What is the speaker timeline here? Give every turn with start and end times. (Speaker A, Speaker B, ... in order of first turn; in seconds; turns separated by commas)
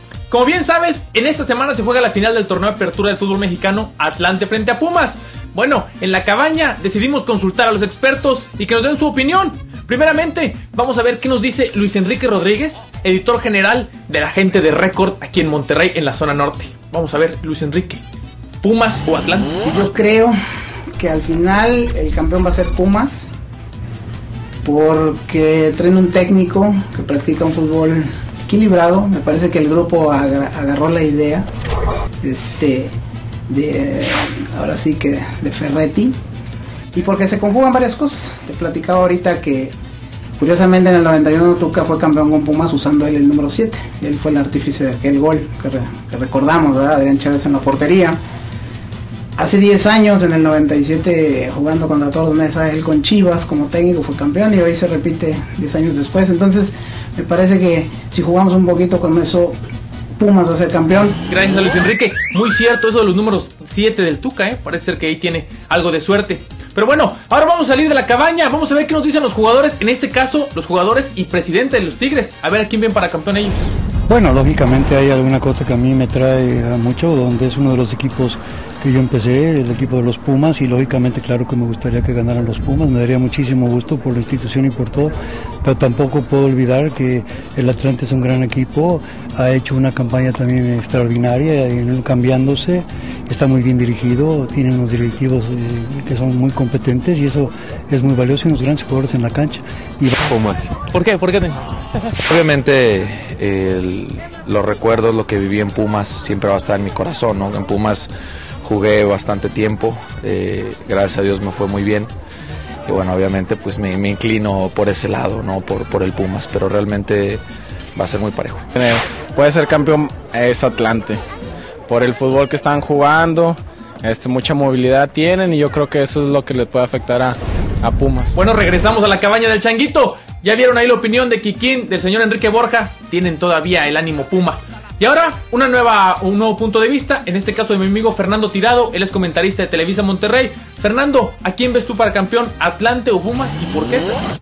Speaker A: 0.3-18.0, Speaker A: 18.6-19.5, Speaker B: 19.6-20.3, Speaker B: 20.9-23.3, Speaker B: 24.6-31.5, Speaker B: 32.2-32.9, Speaker B: 33.5-36.1, Speaker B: 36.9-39.7, Speaker B: 40.4-48.2, Speaker B: 49.4-59.6, Speaker B: 60.2-61.2, Speaker A: 61.3-73.7, Speaker C: 74.1-100.2, Speaker A: 100.9-101.6, Speaker D: 102.2-108.1, Speaker D: 108.6-112.1, Speaker D: 112.8-117.4, Speaker D: 118.0-118.7, Speaker E: 118.8-121.2, Speaker E: 121.9-128.4, Speaker A: 128.3-144.1